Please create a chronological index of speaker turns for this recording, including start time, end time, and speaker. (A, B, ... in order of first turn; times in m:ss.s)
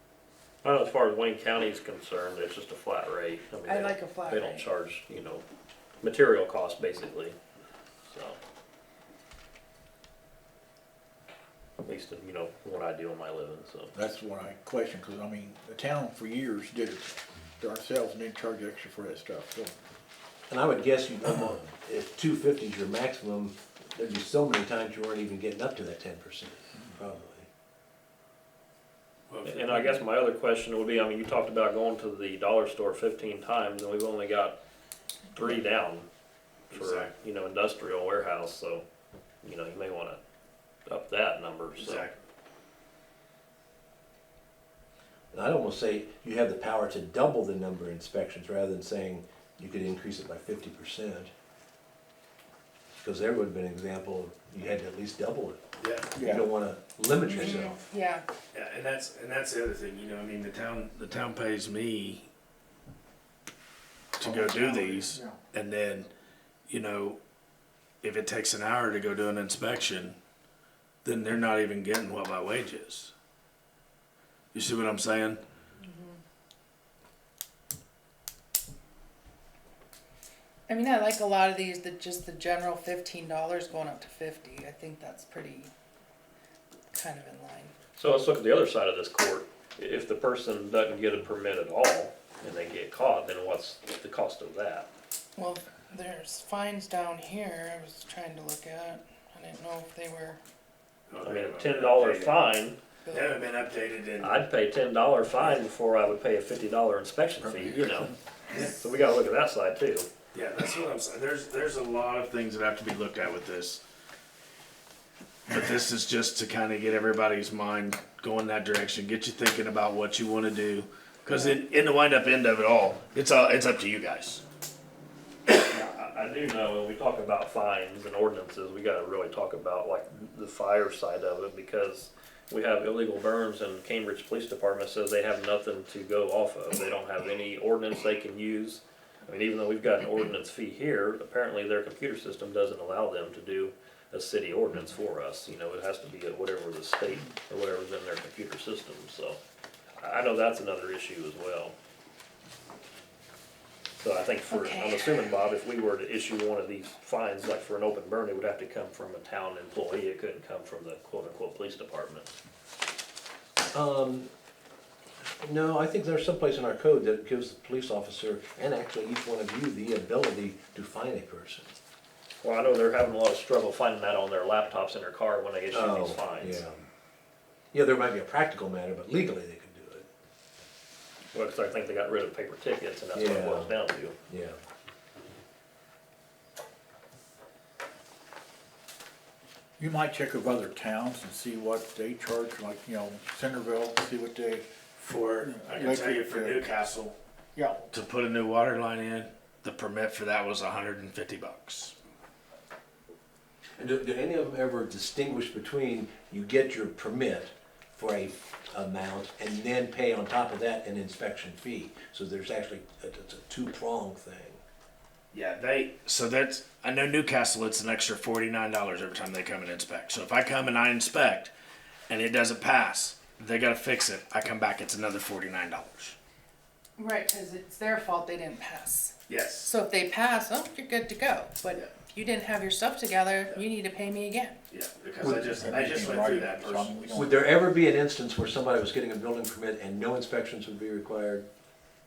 0:00.6-0:05.4 A
0:03.6-0:04.6 B
0:06.0-0:07.4 A
0:08.1-0:08.4 A
0:11.8-0:13.9 A
0:14.0-0:19.8 C
0:20.5-0:27.5 D
0:29.3-0:30.0 E
0:29.4-0:34.6 A
0:35.3-0:36.1 A
0:36.7-0:37.1 E
0:36.7-0:38.8 A
0:39.4-0:40.2 A
0:40.9-0:42.1 A
0:41.8-0:42.2 E
0:45.3-0:51.3 D
0:52.9-0:55.6 D
0:55.8-0:56.1 E
0:56.2-0:56.5 C
0:56.2-0:57.8 D
0:57.2-0:58.2 B
0:58.5-1:02.3 E
1:04.2-1:06.1 E
1:04.2-1:05.4 C
1:06.7-1:07.2 E
1:08.0-1:10.2 E
1:11.0-1:13.1 E
1:14.5-1:15.4 E
1:15.8-1:16.2 B
1:20.7-1:25.7 B
1:26.9-1:27.7 B
1:28.0-1:34.9 A
1:35.4-1:40.4 B
1:41.1-1:42.5 E
1:41.2-1:42.8 A
1:43.1-1:43.4 B
1:43.1-1:44.5 E
1:44.2-1:48.1 A
1:47.6-1:48.8 E
1:48.7-1:50.1 A
1:50.3-1:53.8 E
1:55.5-2:04.4 E
2:05.5-2:29.4 A
2:30.0-2:31.8 A
2:34.0-2:42.3 A
2:34.5-2:35.3 B
2:43.7-2:44.3 D
2:45.4-2:51.8 D
2:52.4-2:56.7 A
2:55.7-2:56.8 D
2:57.7-3:00.1 D
3:01.3-3:04.2 A
3:03.1-3:04.6 D
3:09.8-3:14.7 C
3:15.0-3:17.2 E
3:15.4-3:16.7 C
3:17.6-3:17.8 C
3:17.9-3:21.9 E
3:23.8-3:34.6 D
3:35.3-3:41.5 E
3:42.1-3:46.2 E
3:47.0-3:54.6 B
3:49.3-3:49.8 E
3:54.7-3:57.3 E
3:55.2-3:57.5 C
3:57.1-4:01.5 D